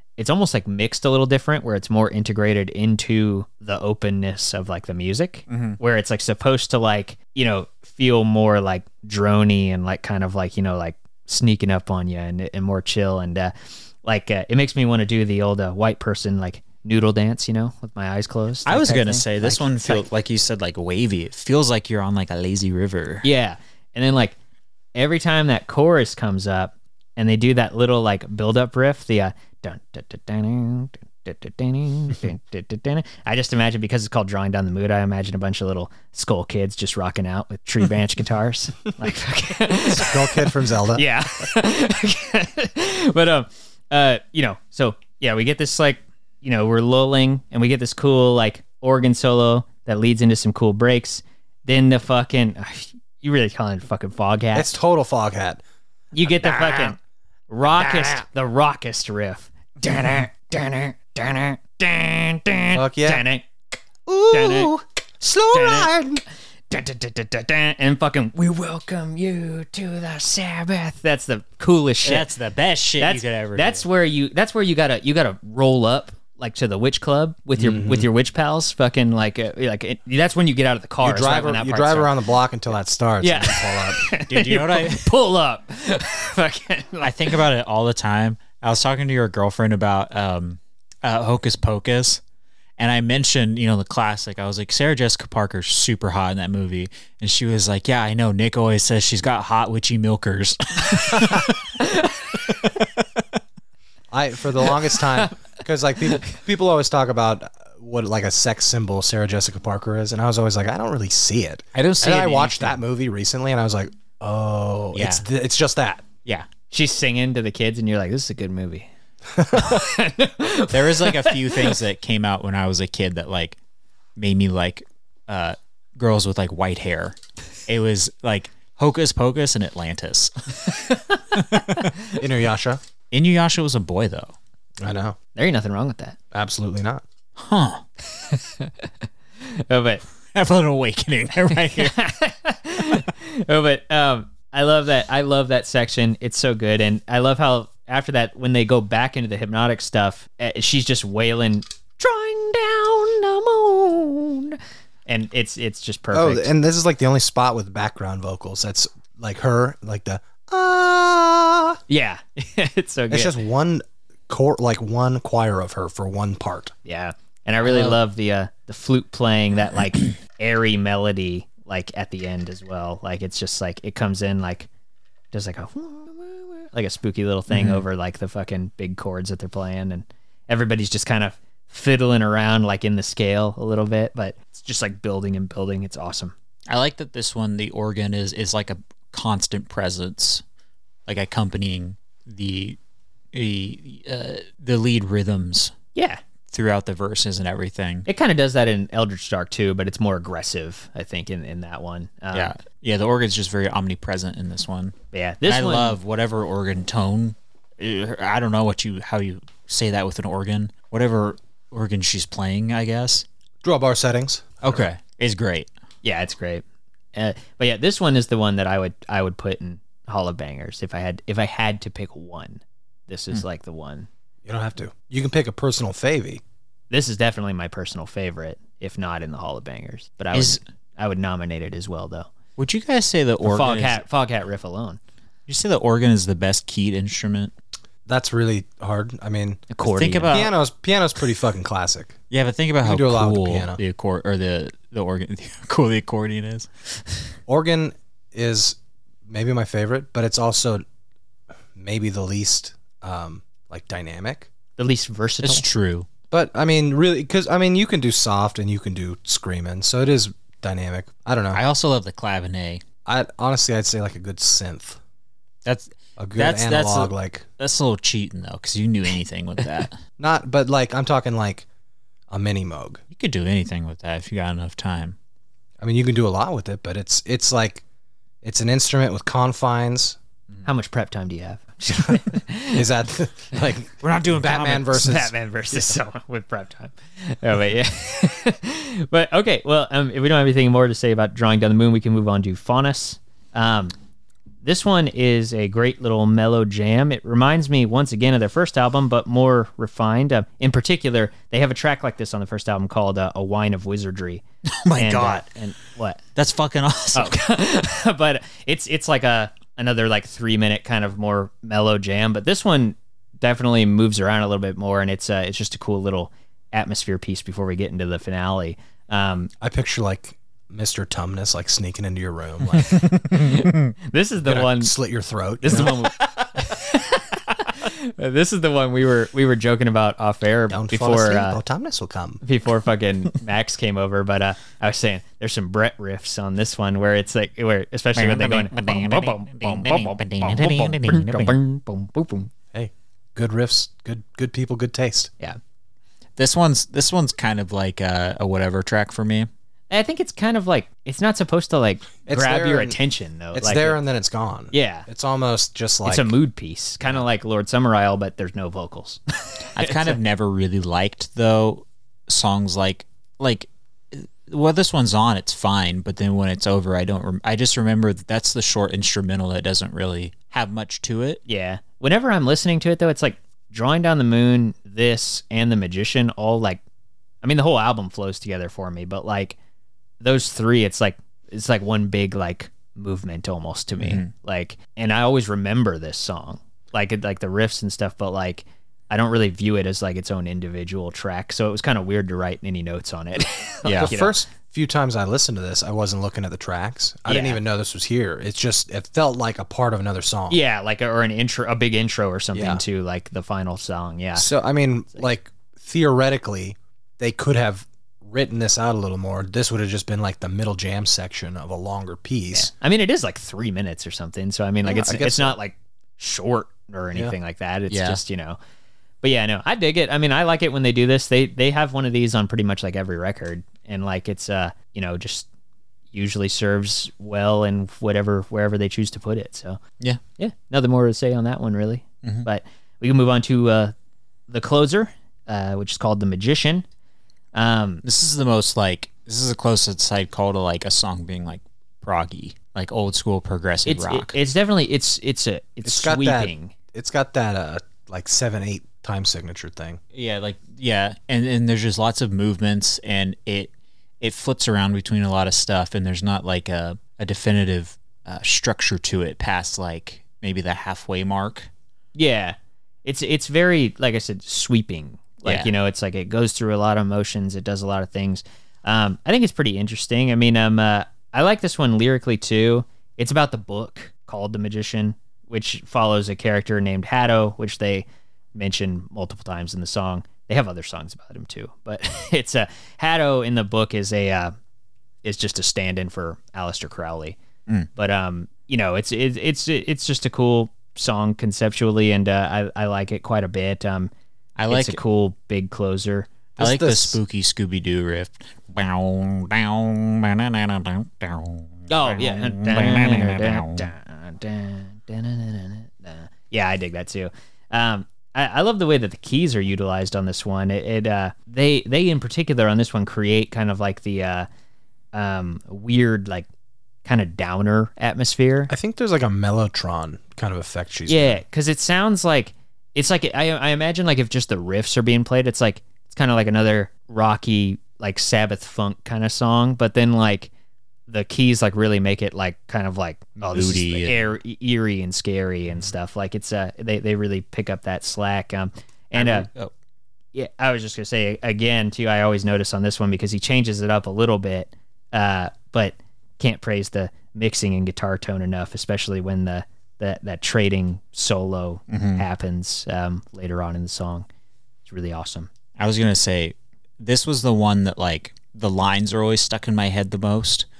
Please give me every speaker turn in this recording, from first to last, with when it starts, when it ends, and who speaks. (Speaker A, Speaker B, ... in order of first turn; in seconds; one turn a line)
Speaker A: 0.2-20.1
Speaker B: 5.5-5.8
Speaker B: 18.7-23.3
Speaker A: 23.2-24.4
Speaker A: 24.9-54.7
Speaker C: 39.9-41.1
Speaker C: 54.5-55.6
Speaker A: 56.1-57.0
Speaker A: 57.5-63.5
Speaker C: 62.7-63.2
Speaker C: 64.1-66.2
Speaker A: 64.3-64.7
Speaker A: 65.5-66.0
Speaker A: 66.7-72.3
Speaker B: 72.0-73.8
Speaker A: 73.0-82.1
Speaker C: 77.6-78.1
Speaker C: 81.0-84.1
Speaker A: 83.2-87.4
Speaker B: 84.3-85.1
Speaker B: 87.0-92.2
Speaker B: 92.8-101.6
Speaker A: 101.8-102.2
Speaker C: 104.1-116.1
Speaker B: 111.7-112.8
Speaker B: 114.9-115.2
Speaker A: 116.7-118.9
Speaker C: 119.3-119.7
Speaker A: 119.5-121.8
Speaker B: 120.7-123.6
Speaker B: 124.2-131.9
Speaker A: 130.9-131.2
Speaker C: 132.1-132.8
Speaker B: 133.1-134.4
Speaker C: 134.8-135.2
Speaker A: 135.3-136.2
Speaker C: 136.3-137.0
Speaker B: 137.4-137.8
Speaker A: 138.1-138.9
Speaker A: 139.4-140.0
Speaker B: 140.3-142.0
Speaker A: 141.7-156.5
Speaker C: 156.1-161.8
Speaker A: 161.9-163.3
Speaker C: 163.1-166.7
Speaker A: 166.8-174.7
Speaker B: 167.6-168.0
Speaker A: 175.3-186.3
Speaker B: 177.5-177.8
Speaker B: 186.7-190.4
Speaker B: 191.1-192.8
Speaker B: 193.3-195.7
Speaker A: 195.9-196.2
Speaker B: 196.5-198.1
Speaker A: 198.1-202.5
Speaker B: 202.3-213.3
Speaker A: 205.1-205.9
Speaker C: 213.6-214.9
Speaker B: 214.6-215.7
Speaker A: 216.0-216.6
Speaker A: 217.1-224.1
Speaker C: 224.4-226.4
Speaker A: 226.9-232.3
Speaker B: 230.3-230.6
Speaker B: 232.6-234.0
Speaker A: 233.4-235.0
Speaker B: 235.5-237.5
Speaker C: 238.1-239.7
Speaker A: 239.7-240.5
Speaker B: 239.8-240.5
Speaker C: 240.3-242.2
Speaker B: 242.3-246.7
Speaker C: 242.8-243.8
Speaker C: 247.5-250.8
Speaker C: 251.7-254.5
Speaker A: 254.8-255.7
Speaker B: 255.4-256.1
Speaker C: 256.3-261.6
Speaker B: 261.5-262.8
Speaker C: 263.1-265.0
Speaker B: 265.6-269.9
Speaker C: 266.2-267.4
Speaker C: 270.2-271.7
Speaker C: 272.3-273.0
Speaker B: 273.1-275.2
Speaker C: 275.8-277.8
Speaker C: 278.4-280.2
Speaker A: 280.6-282.9
Speaker C: 282.7-285.9
Speaker B: 284.0-285.2
Speaker A: 285.0-293.9
Speaker A: 294.6-304.4
Speaker B: 304.8-305.4
Speaker A: 305.0-306.2
Speaker B: 306.4-307.4
Speaker A: 307.1-319.5
Speaker C: 319.6-323.0
Speaker B: 323.2-323.9
Speaker A: 323.3-324.9
Speaker C: 324.4-326.1
Speaker A: 325.6-331.6
Speaker C: 330.7-332.4
Speaker A: 332.4-342.5
Speaker B: 338.2-341.6
Speaker C: 342.7-345.3
Speaker B: 346.4-349.5
Speaker A: 349.9-354.0
Speaker C: 352.3-353.0
Speaker C: 353.5-356.3
Speaker A: 354.7-355.1
Speaker A: 356.1-360.2
Speaker B: 359.7-371.4
Speaker A: 371.4-376.8
Speaker A: 377.4-379.6
Speaker A: 380.2-394.4
Speaker B: 384.0-384.3
Speaker B: 393.9-394.1
Speaker C: 394.0-400.6
Speaker A: 397.3-397.6
Speaker A: 400.5-404.5
Speaker C: 402.5-402.8
Speaker C: 404.4-412.7
Speaker A: 412.5-418.6
Speaker C: 414.9-415.6
Speaker B: 417.9-418.2
Speaker A: 419.2-425.5
Speaker A: 426.1-429.8
Speaker A: 430.4-433.9
Speaker A: 434.5-436.9
Speaker A: 437.6-438.0
Speaker B: 438.0-444.3
Speaker A: 443.9-446.7
Speaker C: 445.9-450.0
Speaker B: 450.1-461.7
Speaker A: 462.1-484.5
Speaker B: 465.4-465.7
Speaker A: 485.2-487.4
Speaker A: 487.9-494.1
Speaker B: 494.6-495.0
Speaker A: 494.7-496.3
Speaker C: 496.6-497.2
Speaker B: 496.6-503.9
Speaker A: 501.9-514.5
Speaker A: 515.1-516.5
Speaker A: 517.0-518.7
Speaker C: 518.7-521.4
Speaker A: 521.1-530.5
Speaker A: 531.1-539.5
Speaker B: 533.4-534.2
Speaker B: 539.1-539.7
Speaker A: 540.4-554.3
Speaker B: 551.9-552.2
Speaker A: 554.9-555.5
Speaker B: 555.8-560.7